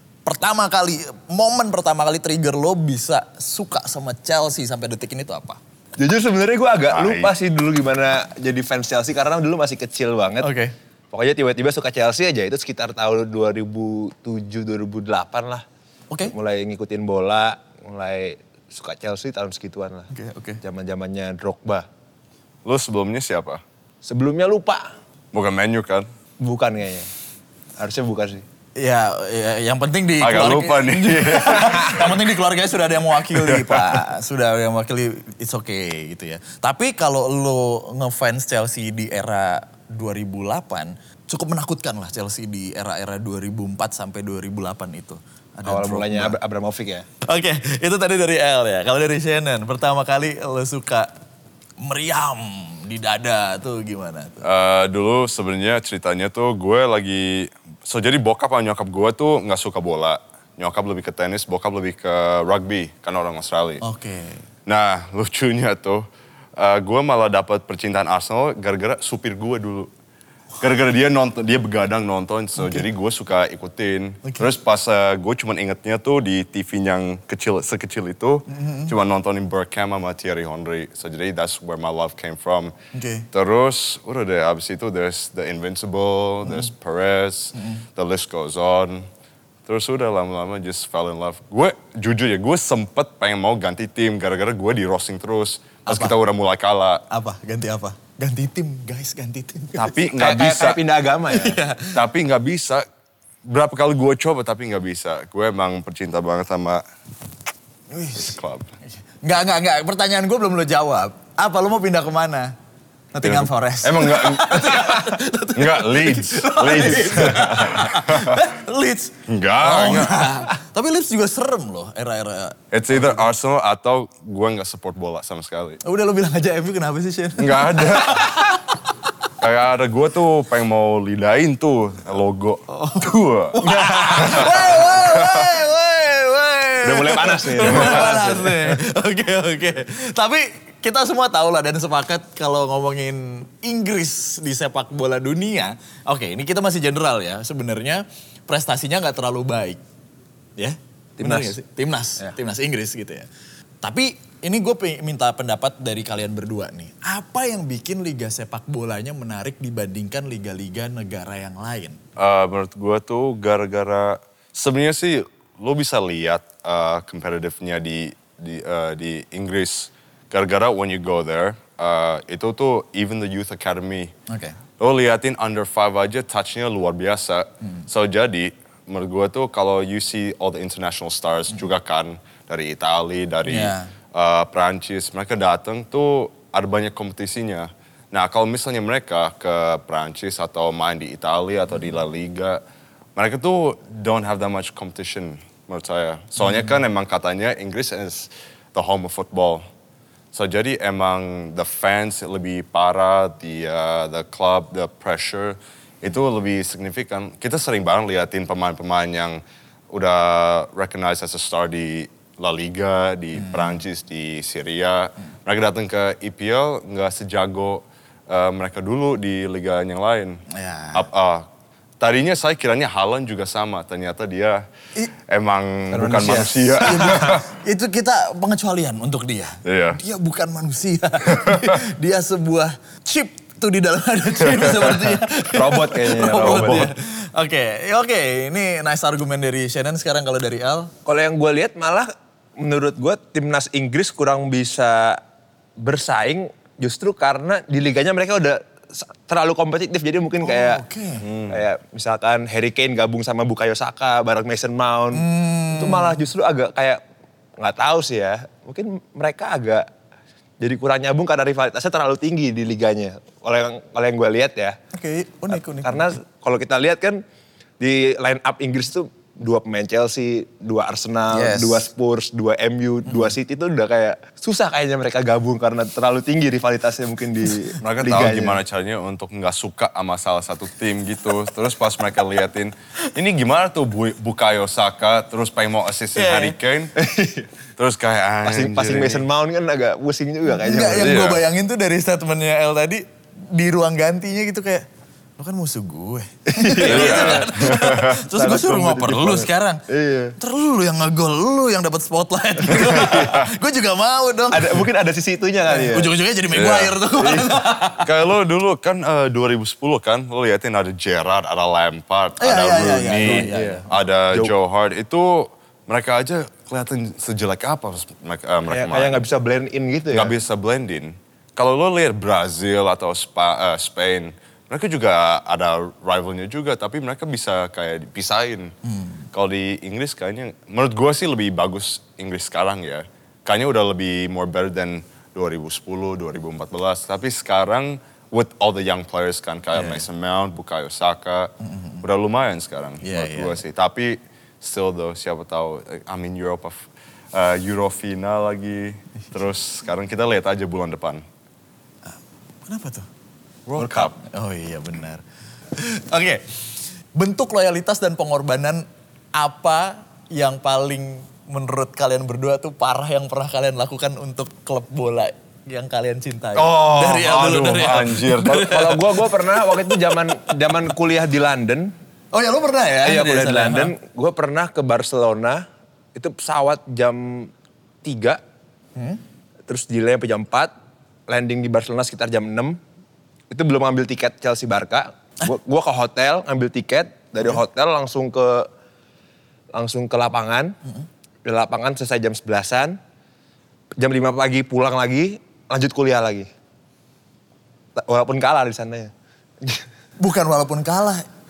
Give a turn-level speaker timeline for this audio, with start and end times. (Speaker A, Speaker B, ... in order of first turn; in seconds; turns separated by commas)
Speaker A: 0.2-5.6, Speaker B: 6.0-10.5, Speaker C: 6.9-7.3, Speaker A: 10.4-10.7, Speaker B: 11.1-15.6, Speaker B: 16.3-20.1, Speaker A: 20.1-20.6, Speaker B: 20.6-21.9, Speaker C: 22.6-23.6, Speaker B: 24.0-24.9, Speaker C: 25.3-26.1, Speaker B: 26.4-27.1, Speaker B: 27.8-28.4, Speaker A: 28.8-46.4, Speaker C: 30.2-32.0, Speaker B: 31.6-31.9, Speaker C: 33.3-33.9, Speaker B: 45.6-47.0, Speaker A: 47.2-51.1, Speaker A: 51.8-54.5, Speaker C: 54.4-63.8, Speaker A: 63.8-64.4, Speaker C: 64.7-69.9, Speaker C: 70.6-82.7, Speaker A: 72.6-72.9, Speaker A: 78.5-78.9, Speaker A: 82.9-83.2, Speaker C: 83.3-89.0, Speaker A: 87.5-87.8, Speaker C: 89.7-97.0, Speaker A: 95.9-96.1, Speaker A: 97.1-99.9, Speaker C: 99.8-100.8, Speaker B: 99.9-101.6, Speaker A: 101.3-102.0, Speaker C: 101.9-102.8, Speaker C: 103.4-106.8, Speaker A: 107.9-108.4, Speaker C: 108.1-108.7, Speaker A: 109.2-112.5, Speaker A: 113.1-123.2, Speaker C: 113.2-118.4, Speaker C: 119.3-120.4, Speaker C: 122.7-125.8, Speaker A: 125.8-128.6, Speaker C: 127.4-128.3, Speaker C: 129.4-133.6, Speaker A: 132.7-149.8, Speaker B: 133.6-134.8, Speaker C: 134.2-135.5, Speaker B: 136.8-138.8, Speaker A: 150.6-153.3, Speaker B: 151.2-151.5, Speaker A: 153.8-162.0, Speaker C: 162.2-174.1, Speaker A: 174.3-174.6, Speaker C: 174.8-192.6, Speaker A: 183.4-183.9, Speaker C: 193.2-199.6, Speaker A: 196.4-196.7, Speaker C: 200.3-220.4, Speaker A: 213.3-213.8, Speaker A: 220.5-221.1, Speaker C: 220.9-221.5, Speaker C: 222.0-224.6, Speaker C: 225.2-227.4, Speaker B: 225.9-227.4, Speaker A: 226.8-240.9, Speaker C: 229.6-230.0, Speaker C: 231.3-231.8, Speaker C: 234.6-235.1, Speaker B: 235.5-236.9, Speaker C: 236.4-236.9, Speaker B: 241.1-245.2, Speaker B: 245.8-257.0, Speaker A: 250.4-251.2, Speaker C: 251.3-251.6, Speaker A: 255.1-256.2, Speaker B: 257.6-259.9, Speaker B: 260.6-264.8, Speaker A: 264.9-266.2, Speaker B: 265.5-267.2, Speaker B: 267.8-278.6, Speaker A: 271.3-271.9, Speaker A: 273.1-273.3, Speaker C: 277.8-286.9, Speaker A: 286.1-286.6, Speaker B: 286.9-287.5, Speaker C: 287.8-289.2, Speaker B: 288.4-291.1, Speaker A: 290.4-294.9, Speaker C: 290.9-291.4, Speaker A: 295.4-299.8, Speaker B: 296.5-297.5, Speaker C: 296.8-298.2, Speaker B: 298.3-300.3, Speaker A: 300.4-304.8, Speaker C: 302.7-303.5, Speaker B: 304.5-306.1, Speaker A: 305.7-308.1, Speaker C: 306.5-307.5, Speaker C: 308.0-319.3, Speaker A: 312.4-313.8, Speaker B: 313.2-314.5, Speaker B: 318.7-320.3, Speaker C: 320.1-328.7, Speaker C: 329.3-351.2, Speaker A: 339.7-340.1, Speaker A: 341.6-342.0, Speaker A: 343.0-343.6, Speaker A: 352.7-353.1, Speaker C: 353.7-354.1, Speaker B: 353.8-354.1, Speaker A: 354.1-355.2, Speaker A: 355.7-356.4, Speaker A: 357.1-370.5, Speaker C: 366.5-369.2, Speaker B: 368.6-371.9, Speaker A: 372.3-373.9, Speaker B: 373.0-377.5, Speaker B: 378.0-378.4, Speaker B: 379.7-380.7, Speaker B: 381.3-382.8, Speaker B: 383.5-388.7, Speaker B: 389.7-390.8, Speaker B: 391.4-393.0, Speaker B: 394.0-396.5, Speaker B: 398.0-399.8, Speaker A: 400.2-401.2